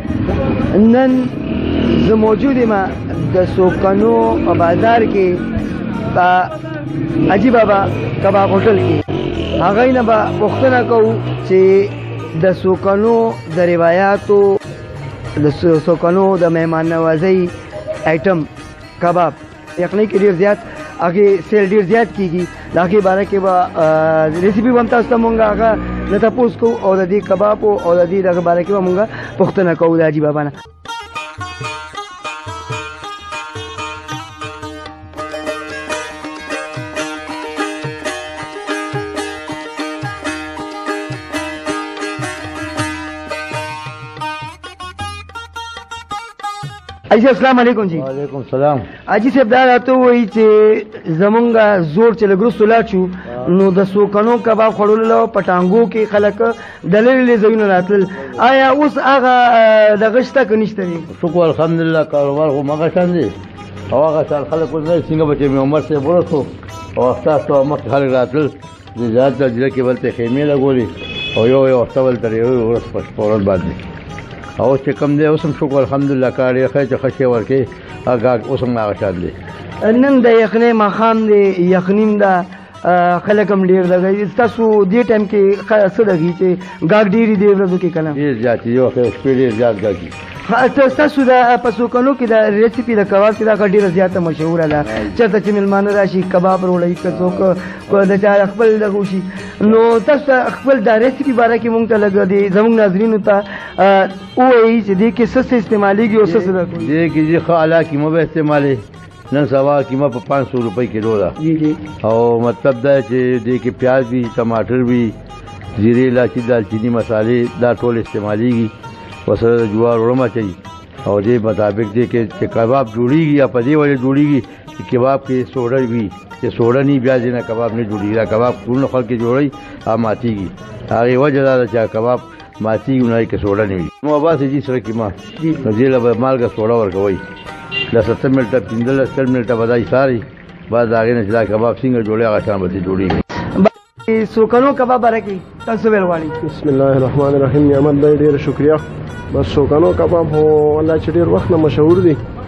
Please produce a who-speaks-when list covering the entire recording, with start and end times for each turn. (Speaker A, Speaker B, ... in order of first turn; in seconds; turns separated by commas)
Speaker A: 0.7-5.4, Speaker A: 6.1-6.5, Speaker A: 7.3-9.1, Speaker A: 9.6-14.6, Speaker A: 15.4-17.5, Speaker A: 18.1-18.5, Speaker A: 19.0-30.5, Speaker A: 47.1-48.1, Speaker B: 47.9-48.9, Speaker A: 49.1-61.1, Speaker B: 61.1-63.3, Speaker B: 63.9-73.8, Speaker B: 74.6-79.3, Speaker A: 79.8-88.2, Speaker B: 88.2-90.1, Speaker A: 90.5-107.0, Speaker B: 106.3-111.4, Speaker A: 111.4-111.8, Speaker B: 111.9-115.2, Speaker B: 115.8-118.7, Speaker B: 119.3-137.2, Speaker B: 137.9-143.2, Speaker A: 143.6-146.4, Speaker C: 146.4-152.2